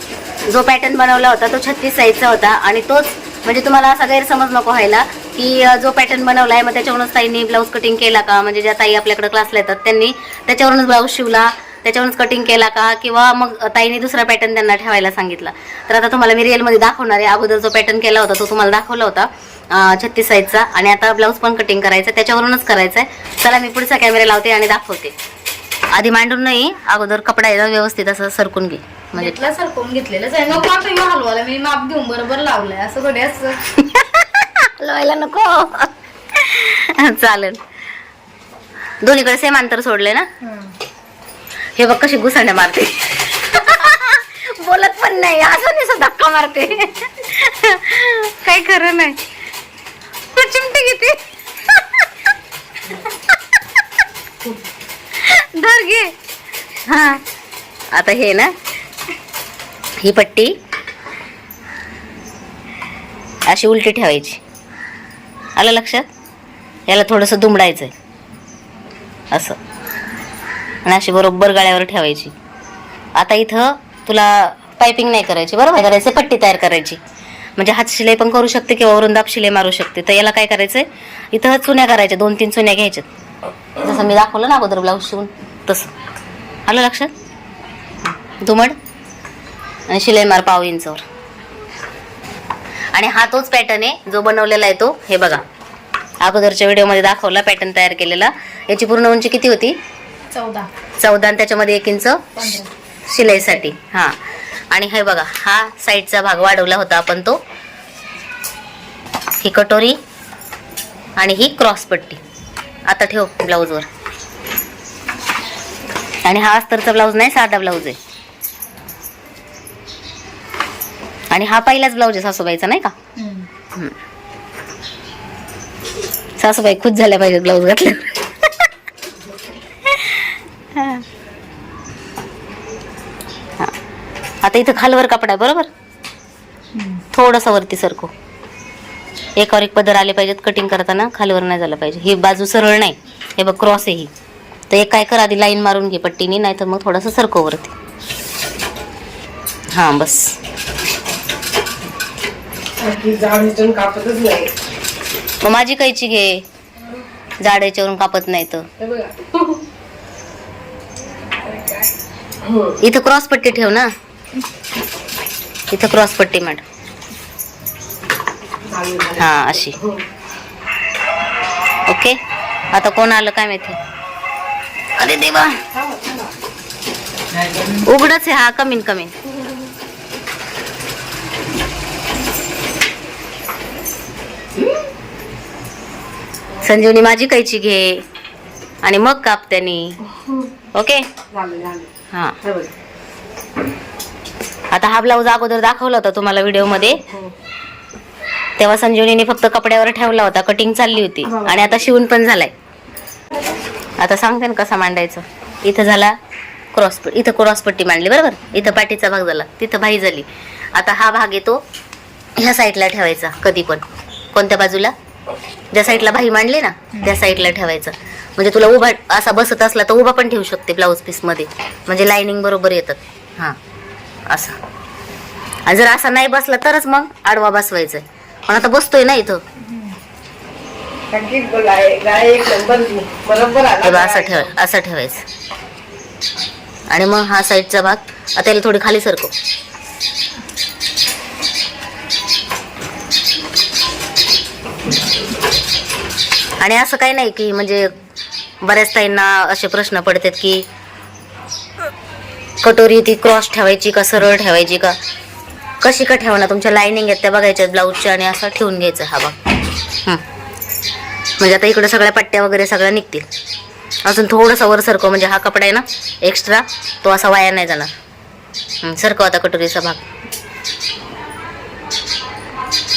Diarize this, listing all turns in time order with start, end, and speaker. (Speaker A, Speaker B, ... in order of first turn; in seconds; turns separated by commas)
Speaker A: 0.5-25.1, Speaker A: 25.9-29.4, Speaker B: 29.1-33.6, Speaker A: 33.8-37.6, Speaker A: 39.0-40.3, Speaker B: 40.4-40.8, Speaker A: 41.8-49.2, Speaker A: 50.3-52.1, Speaker A: 52.9-53.6, Speaker A: 55.2-56.1, Speaker A: 56.9-57.2, Speaker A: 57.9-58.5, Speaker A: 60.0-60.5, Speaker A: 63.5-64.4, Speaker A: 65.6-66.1, Speaker A: 66.9-67.9, Speaker A: 69.3-69.6, Speaker A: 70.8-72.3, Speaker A: 73.2-77.0, Speaker A: 77.6-83.1, Speaker A: 83.8-85.9, Speaker A: 86.7-87.1, Speaker A: 88.2-88.8, Speaker A: 89.9-91.0, Speaker A: 92.9-95.4, Speaker A: 96.2-99.8, Speaker B: 100.3-100.7, Speaker A: 101.0-102.5, Speaker B: 102.3-102.7, Speaker A: 103.1-104.2, Speaker A: 104.7-107.4, Speaker A: 109.4-110.0, Speaker A: 111.2-112.2, Speaker A: 112.9-113.9, Speaker A: 116.2-118.0, Speaker A: 121.3-122.9, Speaker B: 123.2-123.5, Speaker A: 126.4-128.7, Speaker A: 129.8-131.1, Speaker A: 134.4-135.7, Speaker B: 136.7-137.0, Speaker A: 137.1-138.1, Speaker A: 139.4-144.1, Speaker A: 144.7-147.7, Speaker A: 149.7-150.4, Speaker C: 152.8-154.5, Speaker A: 155.4-156.4, Speaker A: 157.4-158.7, Speaker C: 158.8-159.6, Speaker C: 161.3-161.9, Speaker C: 162.4-162.8, Speaker A: 162.8-163.9, Speaker A: 165.7-166.6, Speaker C: 168.7-170.0, Speaker A: 169.2-169.8, Speaker A: 171.9-172.2, Speaker A: 172.7-173.8, Speaker A: 175.0-175.6, Speaker C: 175.7-176.3, Speaker A: 177.7-179.1, Speaker A: 186.6-188.0, Speaker A: 188.8-190.0, Speaker C: 190.1-190.5, Speaker A: 190.7-191.0, Speaker C: 191.3-192.7, Speaker A: 192.1-192.4, Speaker A: 194.7-197.0, Speaker C: 197.0-197.3, Speaker A: 198.6-202.5, Speaker C: 201.2-201.8, Speaker A: 204.0-206.2, Speaker A: 206.7-211.6, Speaker A: 212.4-214.9, Speaker A: 215.7-223.6, Speaker A: 224.3-224.6, Speaker A: 225.7-229.4, Speaker B: 229.6-230.0, Speaker C: 231.1-234.5, Speaker A: 233.8-235.2, Speaker A: 236.9-239.3, Speaker A: 246.6-247.9, Speaker A: 248.6-250.6, Speaker A: 252.6-255.0, Speaker A: 255.8-259.3, Speaker A: 261.4-263.3, Speaker A: 264.0-267.9, Speaker A: 268.8-270.0